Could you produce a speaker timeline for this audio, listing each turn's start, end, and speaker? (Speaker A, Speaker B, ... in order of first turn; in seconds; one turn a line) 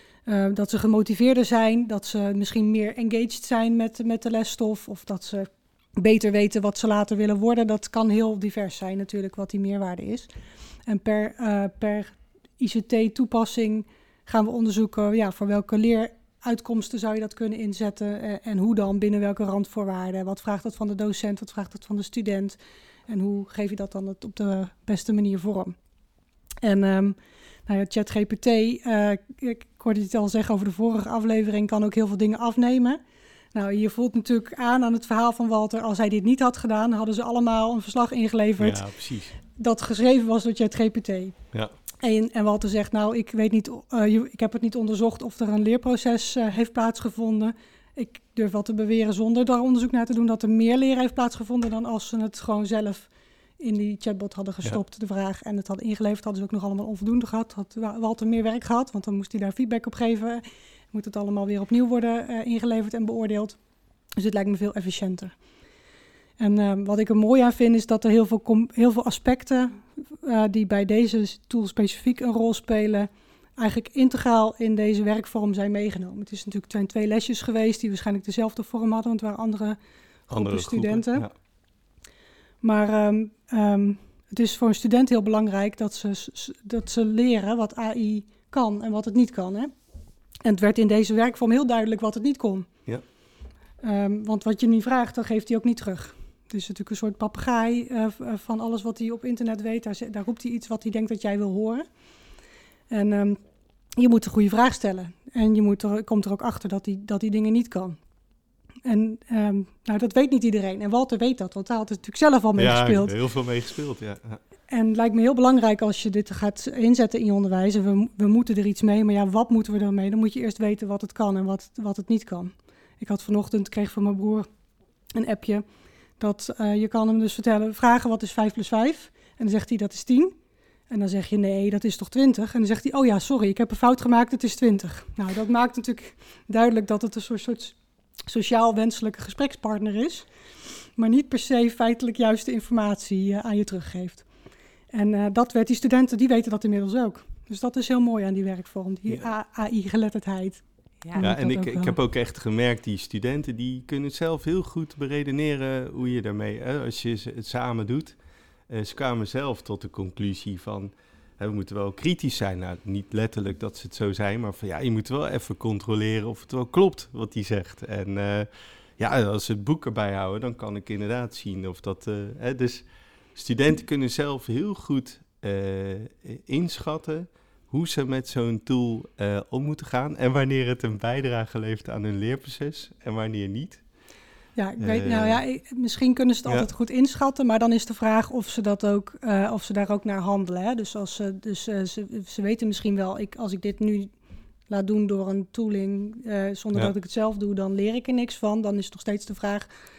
Speaker A: 0.3-10.3
Speaker A: 10.9-22.6
Speaker A: 23.1-25.7
Speaker A: 26.6-33.0
Speaker A: 33.5-38.9
Speaker B: 38.6-39.4
Speaker A: 39.4-41.4
Speaker A: 42.0-63.6
Speaker A: 64.2-65.3
Speaker A: 66.4-79.8
Speaker A: 80.3-81.3
Speaker B: 80.3-81.3
Speaker A: 82.6-89.7
Speaker A: 90.4-92.7
Speaker A: 93.8-101.8
Speaker A: 102.9-103.4
Speaker A: 104.0-108.0
Speaker A: 108.8-113.1
Speaker B: 112.6-114.4
Speaker A: 114.7-124.5
Speaker A: 125.1-125.6
Speaker A: 126.2-130.3
Speaker A: 130.9-137.8
Speaker A: 138.3-140.3
Speaker A: 140.9-144.2
Speaker A: 144.9-152.0
Speaker B: 151.2-158.2
Speaker B: 158.7-183.8
Speaker A: 184.6-194.1
Speaker B: 184.8-185.4
Speaker A: 194.7-199.7